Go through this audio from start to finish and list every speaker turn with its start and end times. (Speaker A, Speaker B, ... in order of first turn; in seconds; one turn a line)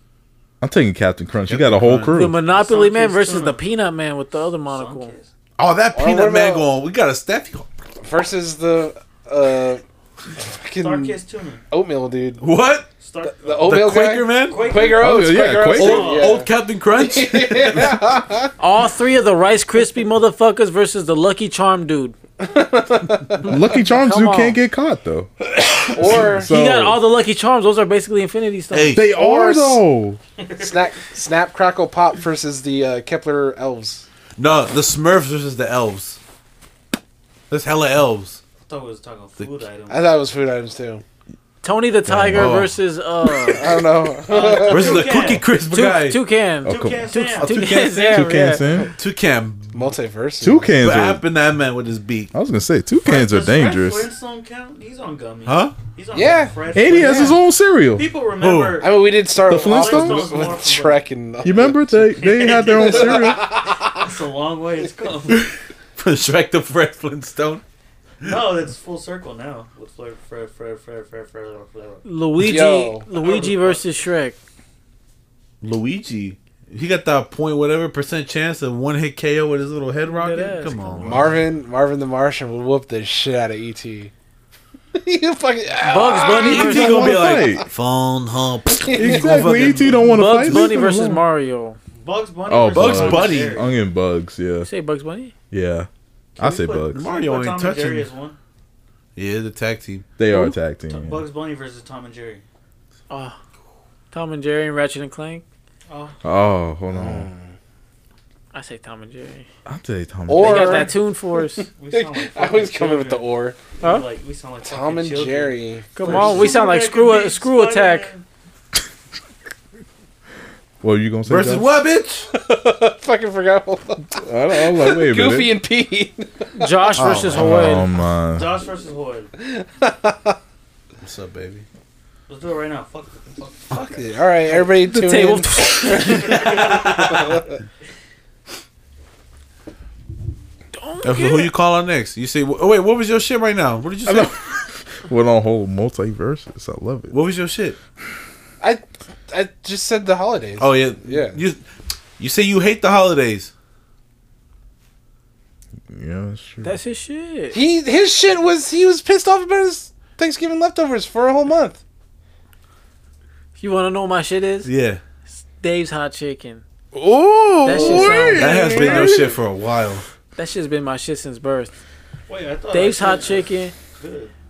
Speaker A: 0.6-2.4
Speaker B: 1.5-2.2
Speaker C: 2.1-5.2
Speaker D: 2.4-3.6
Speaker D: 4.7-5.3
Speaker B: 5.6-7.7
Speaker E: 5.9-6.7
Speaker E: 8.0-9.8
Speaker E: 10.4-12.5
Speaker D: 10.8-11.6
Speaker B: 12.4-12.9
Speaker D: 13.0-13.8
Speaker E: 13.2-18.5
Speaker B: 13.6-14.7
Speaker D: 14.4-15.2
Speaker A: 14.9-16.1
Speaker B: 15.8-18.1
Speaker D: 15.8-16.4
Speaker C: 18.6-22.2
Speaker E: 22.4-23.6
Speaker A: 23.4-25.3
Speaker C: 23.8-24.6
Speaker E: 25.7-26.5
Speaker A: 26.0-27.0
Speaker C: 26.4-29.1
Speaker B: 28.7-29.1
Speaker A: 28.9-30.2
Speaker E: 29.1-29.8
Speaker D: 30.4-30.9
Speaker E: 30.6-34.1
Speaker B: 34.4-36.2
Speaker B: 37.5-38.4
Speaker D: 38.6-40.1
Speaker E: 39.9-41.0
Speaker C: 41.6-43.7
Speaker A: 42.1-42.6
Speaker B: 42.3-42.7
Speaker E: 43.5-45.1
Speaker D: 44.3-45.5
Speaker B: 44.6-46.2
Speaker C: 45.7-48.7
Speaker A: 46.6-47.1
Speaker D: 46.6-47.6
Speaker B: 47.4-48.3
Speaker A: 48.0-48.9
Speaker B: 49.0-49.9
Speaker E: 49.7-50.8
Speaker A: 50.4-51.2
Speaker B: 50.8-52.3
Speaker A: 52.3-54.1
Speaker D: 53.0-57.4
Speaker B: 55.5-55.8
Speaker E: 56.1-57.4
Speaker A: 56.7-58.1
Speaker D: 57.9-65.5
Speaker B: 58.4-58.8
Speaker E: 58.8-63.8
Speaker A: 59.5-60.5
Speaker A: 61.4-63.5
Speaker B: 65.3-67.6
Speaker D: 68.2-72.0
Speaker C: 72.0-74.4
Speaker E: 72.4-73.1
Speaker D: 73.1-73.9
Speaker B: 75.6-81.3
Speaker C: 80.0-81.2
Speaker E: 81.0-84.1
Speaker E: 84.9-87.7
Speaker C: 85.8-87.1
Speaker B: 86.4-90.1
Speaker A: 86.4-87.7
Speaker E: 88.8-89.7
Speaker A: 88.9-91.2
Speaker C: 90.1-91.8
Speaker D: 92.0-93.8
Speaker A: 92.5-94.7
Speaker B: 92.7-93.7
Speaker C: 94.6-95.3
Speaker A: 95.5-97.0
Speaker D: 96.4-98.4
Speaker B: 96.9-98.1
Speaker B: 99.2-100.1
Speaker A: 100.2-101.2
Speaker D: 100.9-102.4
Speaker C: 103.1-103.4
Speaker C: 104.1-105.4
Speaker D: 105.9-106.2
Speaker A: 106.2-107.3
Speaker E: 106.9-107.5
Speaker C: 108.5-109.5
Speaker A: 109.7-110.9
Speaker E: 110.3-111.0
Speaker C: 110.4-111.7
Speaker D: 110.6-110.9
Speaker D: 111.7-118.2
Speaker E: 111.9-113.6
Speaker C: 113.8-114.1
Speaker E: 114.6-116.5
Speaker C: 116.0-118.1
Speaker A: 120.8-121.7
Speaker B: 121.2-122.3
Speaker E: 122.3-127.3
Speaker A: 124.2-125.6
Speaker C: 126.5-127.9
Speaker B: 127.0-127.4
Speaker A: 127.3-128.5
Speaker D: 128.2-129.3
Speaker E: 129.4-130.4
Speaker B: 131.0-131.7
Speaker D: 132.3-134.7
Speaker E: 133.7-137.5
Speaker C: 134.8-136.6
Speaker D: 135.8-137.5
Speaker C: 140.7-141.5
Speaker B: 141.0-144.4
Speaker A: 144.1-147.2
Speaker B: 147.1-147.8
Speaker E: 148.6-151.4
Speaker B: 150.6-151.6
Speaker B: 152.2-153.5
Speaker A: 155.9-156.8
Speaker C: 156.6-157.6
Speaker E: 157.5-161.8
Speaker C: 163.6-164.7
Speaker B: 164.6-165.0
Speaker C: 165.3-166.6
Speaker A: 166.9-169.3
Speaker E: 167.4-168.8
Speaker C: 167.6-169.3
Speaker B: 168.4-170.1
Speaker C: 170.4-171.7
Speaker D: 172.3-174.3
Speaker C: 172.7-173.7